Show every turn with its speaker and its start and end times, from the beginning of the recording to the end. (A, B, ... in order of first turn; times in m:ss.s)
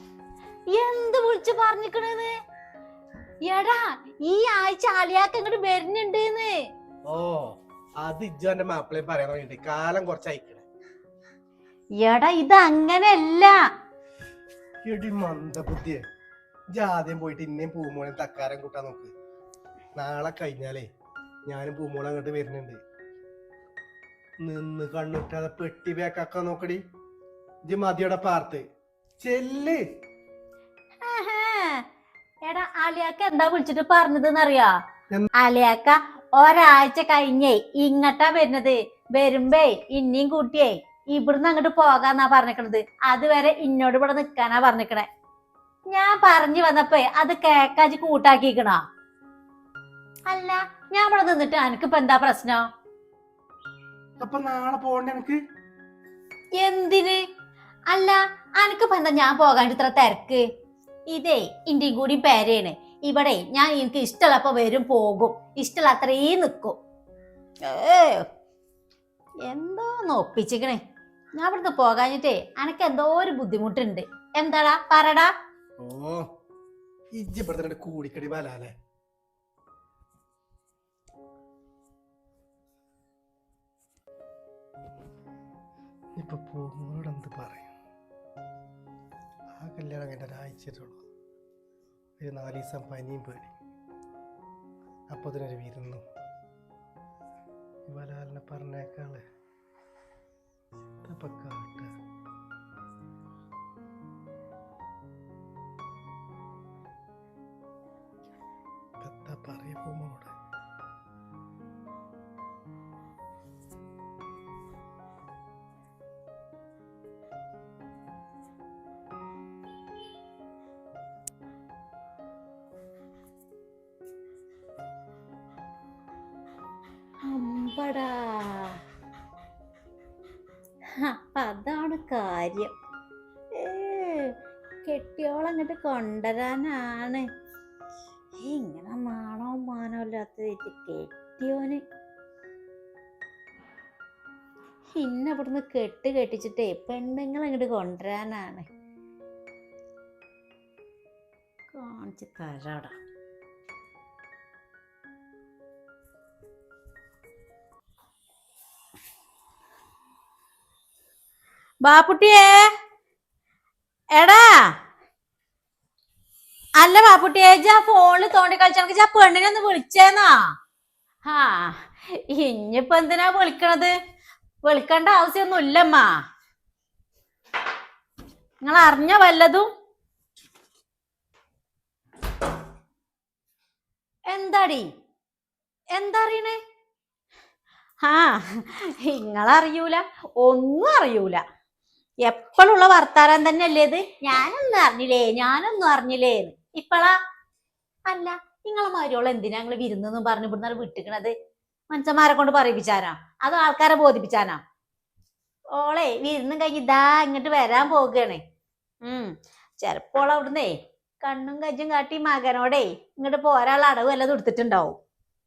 0:00.7-0:02.3 A
0:03.4-0:06.7 A
0:07.1-0:10.6 B
0:12.0-0:13.6 A
0:14.8-0:16.0 B
0:16.7-0:19.1 B
0:20.0-0:20.8 B
0:21.5-0:22.8 B
0:24.4-0:26.8 B
0:27.7-0:28.6 B
0:29.2-0:29.8 B
0:31.0-0:31.8 A
0:32.5-0:34.8 A
0:35.4-0:45.1 A
0:45.9-0:48.8 A
0:50.3-0:52.6 A
0:54.2-0:55.4 B
0:56.6-0:57.2 A
0:57.9-1:00.4 A
1:01.1-1:06.8 A
1:07.6-1:08.3 A
1:09.4-1:10.8 A
1:11.4-1:15.3 A
1:15.8-1:16.3 B
1:17.1-1:18.7 B
1:26.2-1:27.7 B
1:29.6-1:31.0 B
1:32.2-1:33.5 B
1:35.1-1:36.0 B
1:37.9-1:39.2 B
1:41.0-1:41.9 B
1:49.0-1:50.3 B
2:07.2-2:08.8 A
2:10.9-2:12.8 A
2:13.5-2:17.3 A
2:18.4-2:21.8 A
2:25.0-2:28.7 A
2:31.7-2:33.0 A
2:41.8-2:42.7 A
2:44.1-2:44.8 A
2:46.8-2:50.5 A
2:51.2-2:54.0 A
2:54.6-2:56.2 A
2:58.6-2:59.7 A
3:04.3-3:04.9 A
3:05.9-3:06.6 A
3:08.0-3:11.4 A
3:12.2-3:17.2 A
3:18.1-3:21.3 A
3:21.9-3:24.6 A
3:25.7-3:28.4 A
3:29.0-3:35.0 A